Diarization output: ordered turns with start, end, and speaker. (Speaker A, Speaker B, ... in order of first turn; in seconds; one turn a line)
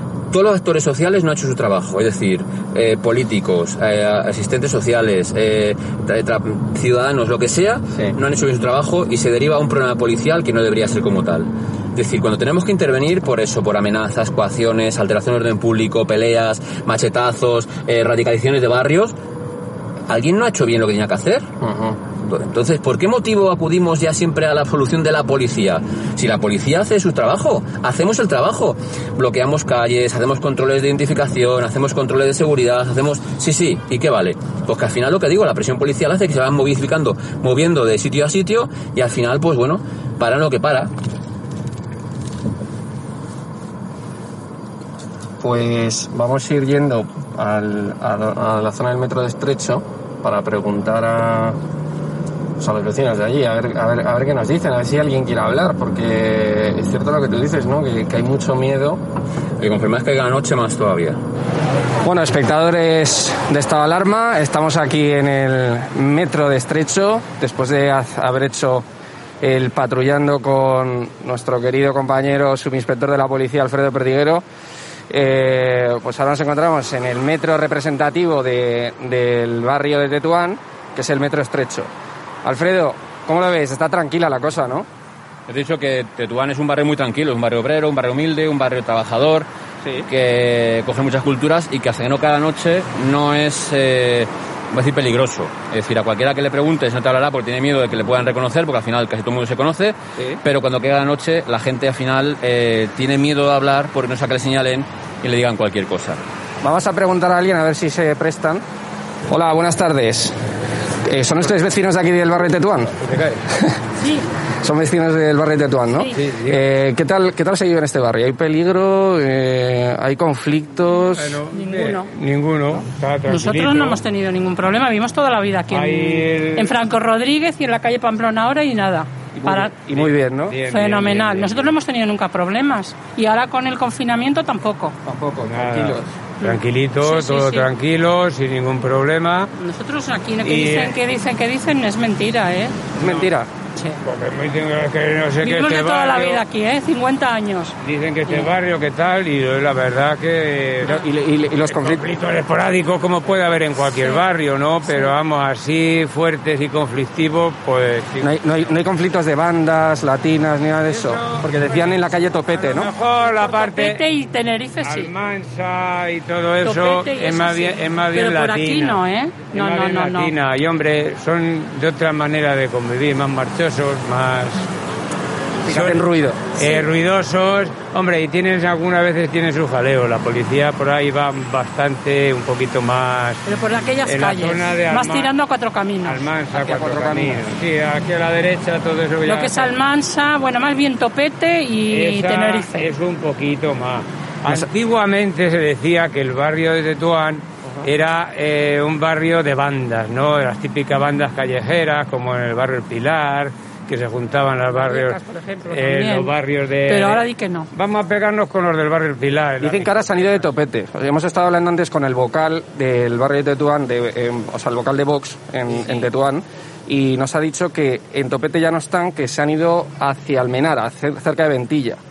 Speaker A: 0.3-19.1
Speaker A: 20.1-21.5
Speaker B: 21.6-22.0
Speaker A: 22.2-40.9
Speaker B: 45.4-51.6
Speaker B: 52.6-59.0
Speaker A: 59.6-61.2
Speaker B: 62.0-68.8
Speaker B: 69.4-74.4
Speaker B: 75.1-81.9
Speaker B: 82.4-84.9
Speaker A: 85.5-89.5
Speaker A: 90.1-106.2
Speaker B: 106.6-108.6
Speaker B: 109.3-110.3
Speaker B: 111.0-113.0
Speaker C: 113.0-113.4
Speaker B: 113.5-113.8
Speaker D: 114.0-114.3
Speaker B: 114.6-121.4
Speaker C: 116.1-116.6
Speaker C: 121.2-124.0
Speaker D: 121.5-122.1
Speaker D: 123.3-129.7
Speaker C: 125.7-126.7
Speaker B: 129.3-130.6
Speaker C: 129.9-131.7
Speaker D: 130.6-134.9
Speaker B: 135.0-136.1
Speaker C: 135.5-139.5
Speaker D: 136.4-137.7
Speaker D: 139.6-142.8
Speaker C: 140.4-141.0
Speaker B: 142.9-143.5
Speaker C: 143.0-143.3
Speaker D: 143.7-144.0
Speaker C: 144.0-146.4
Speaker D: 145.4-147.7
Speaker C: 147.8-151.0
Speaker D: 148.3-148.5
Speaker B: 150.8-152.1
Speaker C: 151.7-158.3
Speaker D: 153.8-154.2
Speaker D: 154.8-155.2
Speaker B: 158.2-162.9
Speaker C: 160.9-161.9
Speaker C: 162.5-164.0
Speaker D: 163.2-165.1
Speaker C: 164.8-174.7
Speaker D: 166.6-170.3
Speaker B: 175.6-176.6
Speaker C: 175.7-183.5
Speaker D: 183.4-186.3
Speaker C: 184.0-185.3
Speaker C: 186.0-189.7
Speaker B: 186.5-187.6
Speaker D: 189.2-192.9
Speaker C: 191.9-205.2
Speaker D: 204.7-206.3
Speaker C: 205.7-210.4
Speaker D: 206.8-207.7
Speaker B: 209.6-222.0